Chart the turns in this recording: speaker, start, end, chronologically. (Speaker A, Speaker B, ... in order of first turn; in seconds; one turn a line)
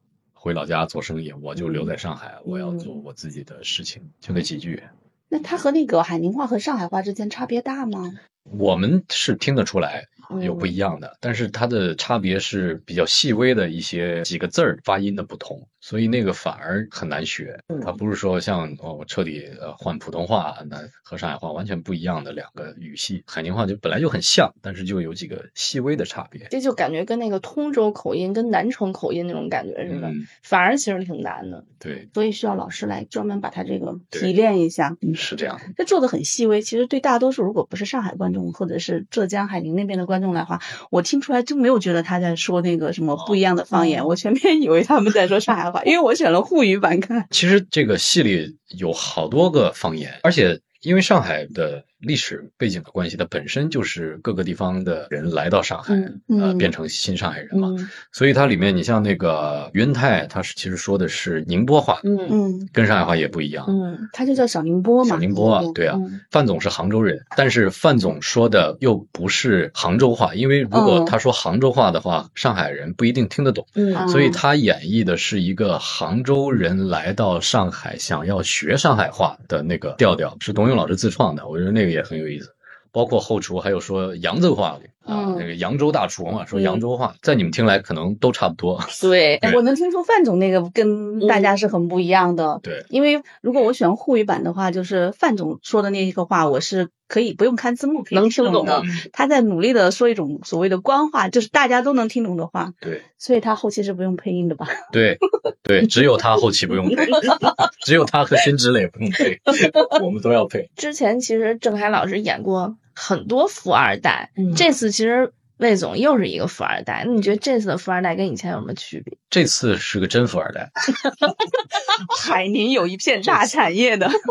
Speaker A: 0.3-4.9
Speaker B: 2.5-2.9
Speaker C: 5.3-8.2
Speaker A: 8.5-26.5
Speaker B: 10.3-10.7
Speaker B: 26.5-31.6
Speaker A: 29.8-30.3
Speaker A: 31.8-32.1
Speaker C: 32.1-47.3
Speaker A: 35.1-35.7
Speaker B: 43.7-44.1
Speaker A: 47.3-62.0
Speaker B: 55.9-56.2
Speaker C: 56.3-56.7
Speaker B: 57.5-57.9
Speaker B: 62.0-62.4
Speaker C: 62.3-62.7
Speaker A: 62.7-63.7
Speaker B: 63.7-64.1
Speaker C: 64.1-65.7
Speaker A: 65.0-89.6
Speaker B: 65.9-66.2
Speaker C: 70.7-71.2
Speaker B: 73.8-74.1
Speaker C: 73.9-74.4
Speaker C: 85.0-85.5
Speaker B: 86.5-86.8
Speaker B: 89.0-89.5
Speaker C: 89.4-104.8
Speaker B: 91.2-91.5
Speaker B: 98.1-98.9
Speaker A: 98.6-99.0
Speaker A: 104.9-110.7
Speaker B: 110.8-119.2
Speaker A: 119.3-120.7
Speaker C: 121.9-124.1